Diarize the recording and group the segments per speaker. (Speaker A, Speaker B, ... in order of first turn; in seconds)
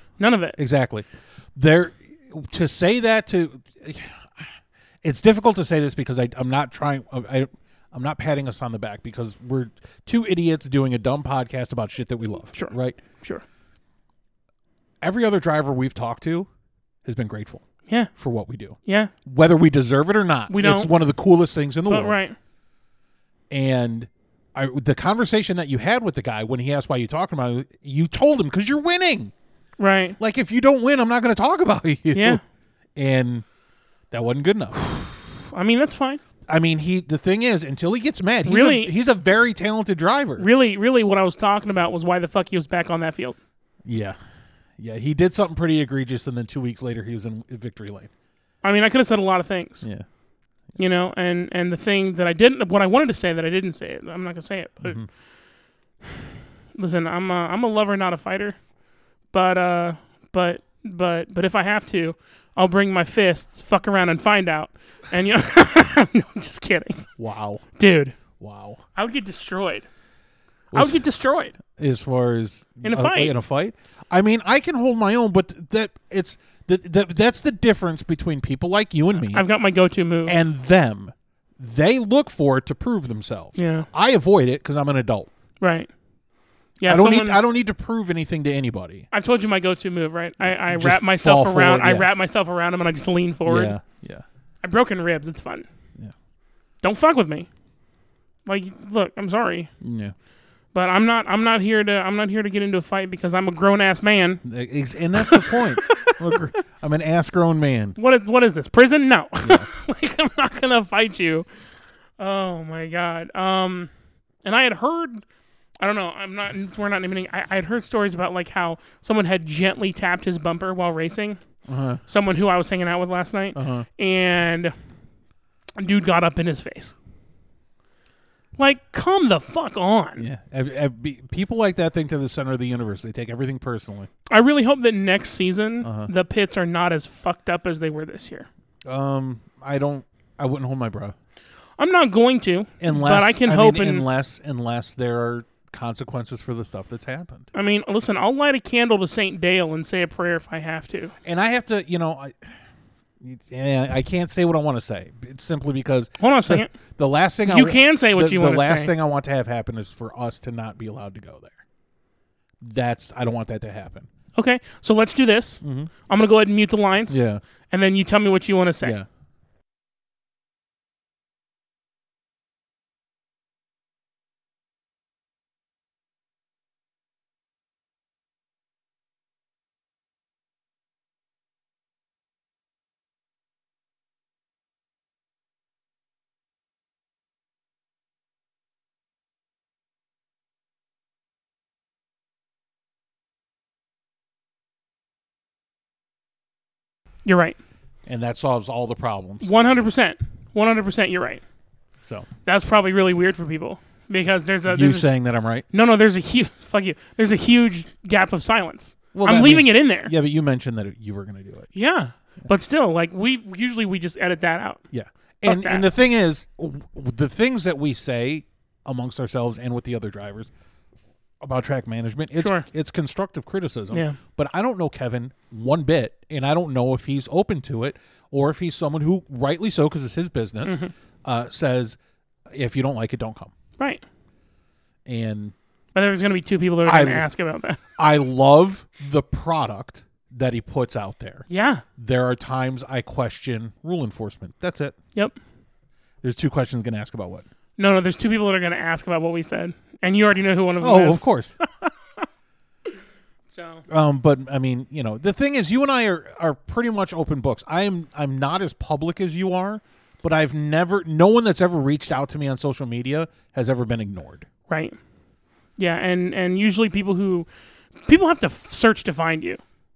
Speaker A: 0.2-0.6, 12.5-13.4, 18.9-19.1, 20.5-20.9, 21.9-22.4, 29.8-30.2, 32.1-32.4, 35.5-36.2, 38.5-38.9, 40.4-43.4, 48.6-49.9, 50.8-55.0, 56.8-58.6, 59.3-67.1, 67.8-68.2, 69.0-69.9, 70.7-71.6, 72.8-73.3, 79.2-80.4, 83.6-83.9, 85.6-85.9, 86.8-87.4, 89.1-93.8, 94.6-95.7, 96.8-97.5, 98.5-99.7, 100.7-104.4, 105.2-106.2, 108.0-111.5, 112.2-113.9, 114.4-115.2, 115.8-121.4, 122.1-124.7, 125.8-126.9, 128.6-130.3, 134.3-138.5, 141.8-144.1, 147.5-151.1, 156.2-156.7, 157.5-158.9, 164.3-168.9, 197.2-197.6, 199.4-201.4, 202.5-205.1, 205.7-210.1, 211.7-214.8, 215.4-215.9, 222.4-222.7, 223.9-224.2, 230.7-230.9, 235.9-237.8, 241.5-241.8, 247.8-251.2, 253.5-253.8, 264.7-265.0, 265.8-267.5, 268.1-269.6
Speaker B: 0.6-13.0, 15.0-16.5, 17.1-17.6, 18.2-22.2, 23.5-29.3, 30.2-32.4, 33.0-33.5, 34.1-35.2, 36.5-40.5, 43.9-44.2, 44.8-48.1, 54.8-55.1, 67.2-67.7, 68.4-68.8, 70.7-71.0, 71.6-79.5, 80.3-85.3, 86.9-89.1, 90.5-92.1, 93.5-94.2, 99.8-100.1, 104.4-108.0, 109.4-109.7, 121.7-122.0, 123.6-123.9, 130.2-134.1, 135.8-136.1, 138.8-141.2, 142.8-147.5, 151.2-152.6, 153.2-161.6, 162.6-164.1, 165.6-165.9, 167.1-167.4, 168.8-169.1, 198.1-199.5, 202.0-202.3, 204.7-205.7, 209.1-211.7, 214.9-220.5, 221.4-232.0, 232.5-233.5, 235.1-235.6, 236.9-237.3, 238.0-241.5, 242.0-245.0, 246.2-247.5, 250.8-251.6, 253.9-264.5